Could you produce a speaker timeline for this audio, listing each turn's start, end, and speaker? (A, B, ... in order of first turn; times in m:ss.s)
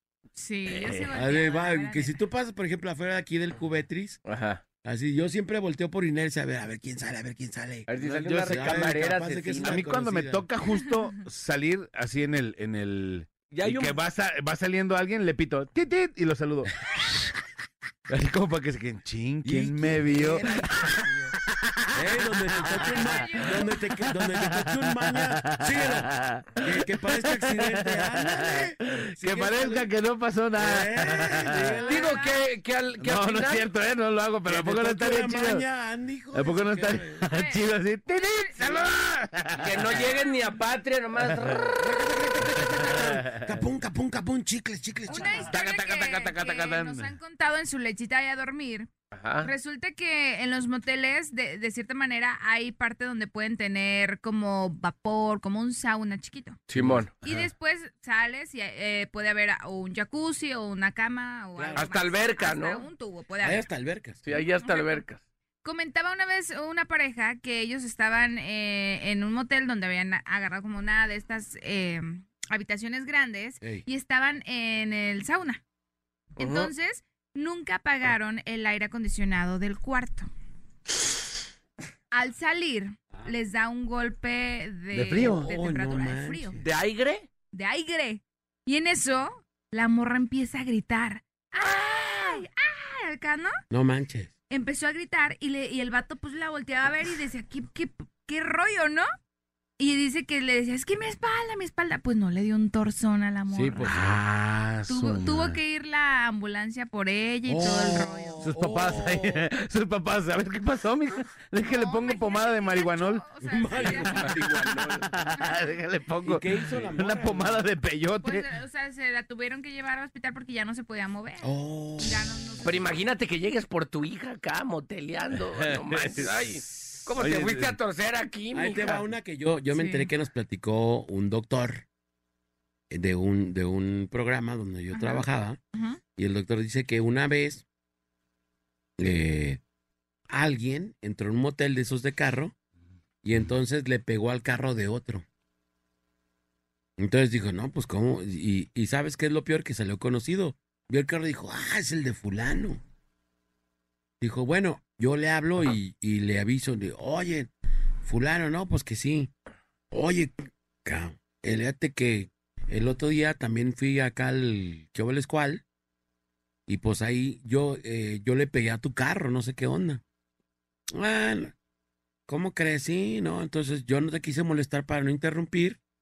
0:00.3-0:02.1 A
0:01.1-0:04.2 B
0:04.2-0:04.6 C
0:04.8-0:10.5 B
0:07.9-0:09.8 C
0:08.1-0:08.8 D
0:09.6-0:17.2 D
0:13.5-0:14.0 C
0:18.1-0:20.8 D
0:19.4-0:21.3 B
0:21.9-0:29.9 B
0:22.7-0:23.7 A
0:24.1-0:31.7 D
0:30.5-0:32.1 B
0:31.8-0:32.3 A
0:31.8-0:33.7 C
0:33.0-0:35.6 D
0:34.4-0:37.2 B
0:36.3-0:40.0 D
0:37.2-0:38.8 A
0:39.6-0:41.8 C
0:41.8-0:45.5 B
0:42.4-0:43.5 D
0:45.1-0:48.9 A
0:45.4-0:47.1 D
0:49.1-0:49.5 C
0:49.4-0:56.6 A
0:56.7-0:57.1 C
0:56.8-0:57.0 B
0:57.2-1:03.7 A
1:01.6-1:01.9 B
1:01.8-1:02.8 C
1:03.4-1:04.2 B
1:04.2-1:05.2 C
1:04.3-1:05.0 A
1:05.6-1:15.6 A
1:16.4-1:20.3 A
1:16.4-1:16.7 C
1:22.1-1:26.6 A
1:24.9-1:26.7 B
1:25.0-1:25.3 D
1:26.6-1:27.3 C
1:27.5-1:33.6 A
1:33.7-1:34.3 B
1:34.5-1:39.1 A
1:39.8-1:44.0 A
1:43.5-1:44.2 B
1:43.8-1:45.6 D
1:44.9-1:48.5 A
1:47.4-1:49.5 B
1:48.4-1:53.3 D
1:51.6-1:54.4 A
1:53.5-1:55.0 B
1:54.2-1:55.0 C
1:55.1-1:58.4 D
1:55.3-1:55.7 A
1:56.2-1:57.7 B
1:58.2-2:02.8 A
2:01.4-2:02.3 B
2:02.6-2:09.0 C
2:05.8-2:07.7 D
2:08.5-2:11.8 B
2:09.7-2:10.1 A
2:12.9-2:15.6 B
2:14.9-2:16.0 A
2:16.2-2:17.6 B
2:19.0-2:19.6 B
2:20.3-2:22.5 B
2:23.2-2:25.2 B
2:27.0-2:32.8 B
2:34.2-2:37.5 B
2:38.0-2:39.3 B
2:39.9-2:45.6 B
2:46.7-2:50.0 B
2:50.9-2:51.5 B
2:52.3-2:55.8 B